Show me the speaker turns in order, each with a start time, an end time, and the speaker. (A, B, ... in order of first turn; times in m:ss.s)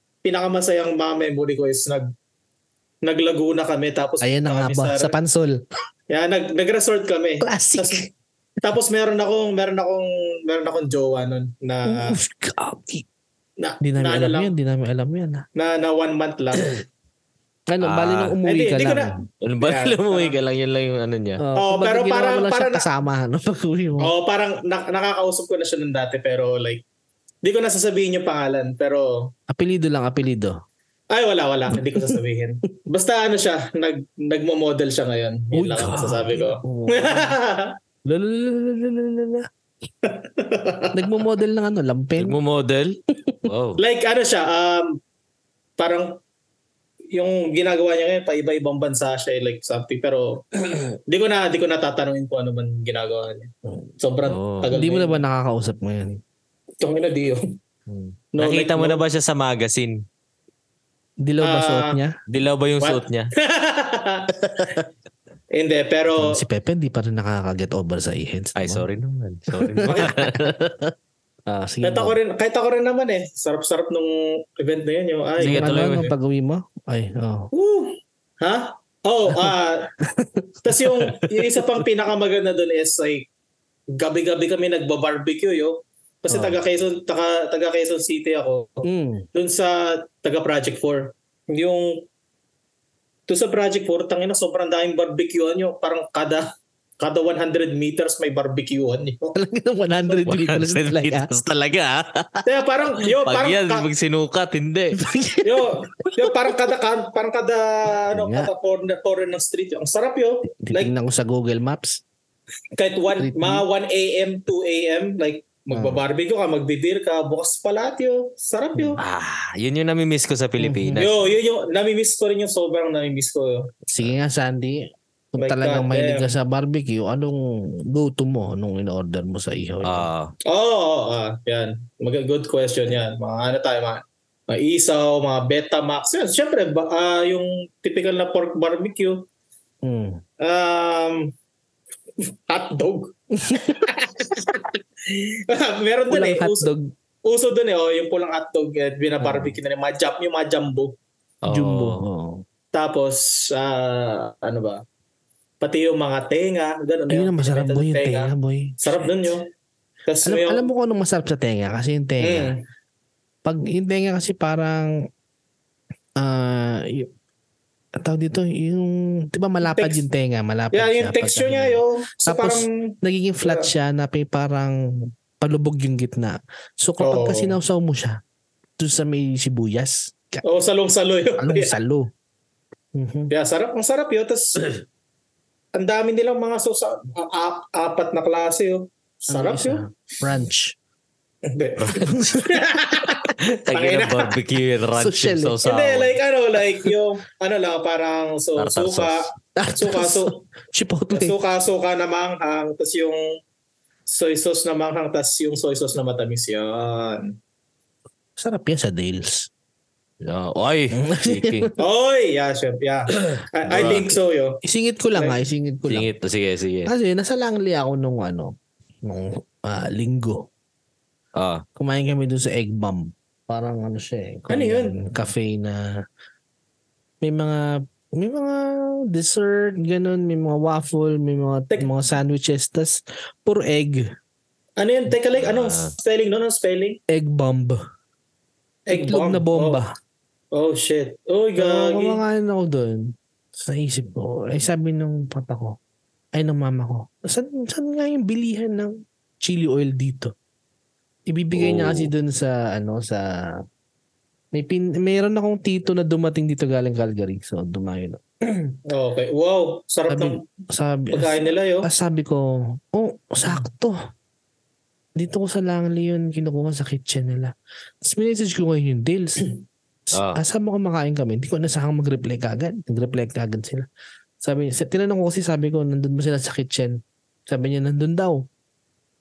0:00.2-0:02.1 A
0:03.0-0:05.2 A
0:04.2-0:05.6 B
0:06.1-0:08.1 A
0:07.4-0:08.1 B
0:08.6-0:12.2 A
0:11.9-0:13.1 B
0:13.6-0:14.5 A
0:13.8-0:15.4 B
0:15.6-0:16.7 A
0:17.7-0:19.2 B
0:17.8-0:18.4 C
0:18.4-0:20.4 A
0:19.4-0:21.4 C
0:21.4-0:24.1 B
0:21.6-0:22.9 A
0:24.0-0:26.8 A
0:27.4-0:29.3 A
0:29.5-0:30.6 B
0:31.1-0:37.8 A
0:31.7-0:32.2 B
0:35.5-0:37.4 B
0:38.1-0:39.5 B
0:40.0-0:41.1 A
0:40.9-0:42.4 B
0:42.2-0:43.8 C
0:43.2-0:43.5 B
0:43.8-0:45.0 A
0:45.8-0:46.2 A
0:47.1-0:50.4 A
0:51.1-0:55.2 A
0:54.2-0:54.7 C
0:54.7-0:56.2 B
0:56.8-0:57.5 A
0:57.9-1:00.0 C
0:58.4-0:59.0 A
1:01.2-1:02.1 B
1:01.4-1:02.0 A
1:02.3-1:03.3 C
1:02.8-1:04.7 A
1:05.5-1:06.4 A
1:06.2-1:08.9 B
1:08.6-1:10.9 C
1:09.5-1:10.1 B
1:09.8-1:10.3 A
1:11.5-1:12.2 B
1:11.8-1:16.1 A
1:15.4-1:17.5 B
1:15.4-1:16.1 C
1:17.5-1:19.9 A
1:19.3-1:20.9 B
1:20.6-1:23.3 A
1:23.9-1:32.1 A
1:26.3-1:26.6 B
1:28.8-1:29.3 B
1:33.3-1:36.5 A
1:37.0-1:39.4 A
1:39.3-1:41.3 B
1:40.2-1:42.5 C
1:42.4-1:43.9 A
1:43.0-1:45.0 C
1:44.9-1:46.4 B
1:45.4-1:50.9 A
1:48.1-1:48.5 B
1:50.6-1:52.0 B
1:52.8-1:59.0 A
1:53.2-1:53.6 B
1:55.7-1:56.0 B
1:59.0-2:01.3 C
2:00.6-2:01.1 B
2:01.0-2:03.7 A
2:03.9-2:10.1 B
2:05.4-2:06.3 A
2:09.8-2:10.3 C
2:10.5-2:19.3 A
2:19.8-2:20.2 B
2:20.4-2:21.3 A
2:22.5-2:26.7 A
2:23.4-2:23.8 B
2:26.1-2:26.9 B
2:27.3-2:30.9 A
2:29.2-2:29.6 B
2:31.4-2:32.0 C
2:31.5-2:32.4 B
2:32.7-2:34.8 A
2:35.6-2:39.5 A
2:37.1-2:39.0 B
2:40.1-2:40.7 A
2:40.2-2:42.5 B
2:42.2-2:42.6 A
2:43.4-2:45.0 B
2:46.2-2:47.1 B
2:48.0-2:58.2 B
2:49.7-2:50.0 A
2:50.7-2:53.7 A
2:57.0-2:57.6 A
2:58.8-3:00.4 B
3:00.4-3:01.8 A
3:01.4-3:02.1 B
3:03.0-3:03.3 B
3:03.3-3:04.8 A
3:05.8-3:09.8 A
3:09.3-3:10.8 B
3:11.5-3:14.4 A
3:12.0-3:12.6 B
3:13.4-3:16.2 C
3:15.0-3:15.6 B
3:15.6-3:20.4 A
3:18.6-3:19.3 C
3:19.6-3:21.4 B
3:21.1-3:23.4 A
3:24.1-3:27.4 A
3:28.4-3:29.5 B
3:30.2-3:31.7 C
3:30.9-3:31.7 B
3:31.8-3:34.6 A
3:33.3-3:34.1 C
3:33.7-3:34.1 B
3:34.6-3:36.1 B
3:35.9-3:36.9 C
3:36.8-3:40.5 B
3:41.4-3:41.6 C
3:41.8-3:45.9 B
3:44.5-3:45.0 A
3:47.2-3:54.1 B
3:54.8-3:57.0 A
3:55.4-3:55.9 C
3:57.1-3:57.8 B
3:58.9-3:59.8 A
3:58.9-4:00.0 B
4:00.5-4:02.2 A
4:01.6-4:05.8 B
4:06.3-4:10.3 B
4:11.3-4:13.3 B
4:11.6-4:12.1 C
4:14.5-4:18.8 B
4:18.9-4:20.4 A
4:20.1-4:24.0 B
4:21.1-4:21.9 A
4:25.2-4:29.5 B
4:30.1-4:30.4 C
4:30.1-4:33.9 B
4:34.4-4:38.4 B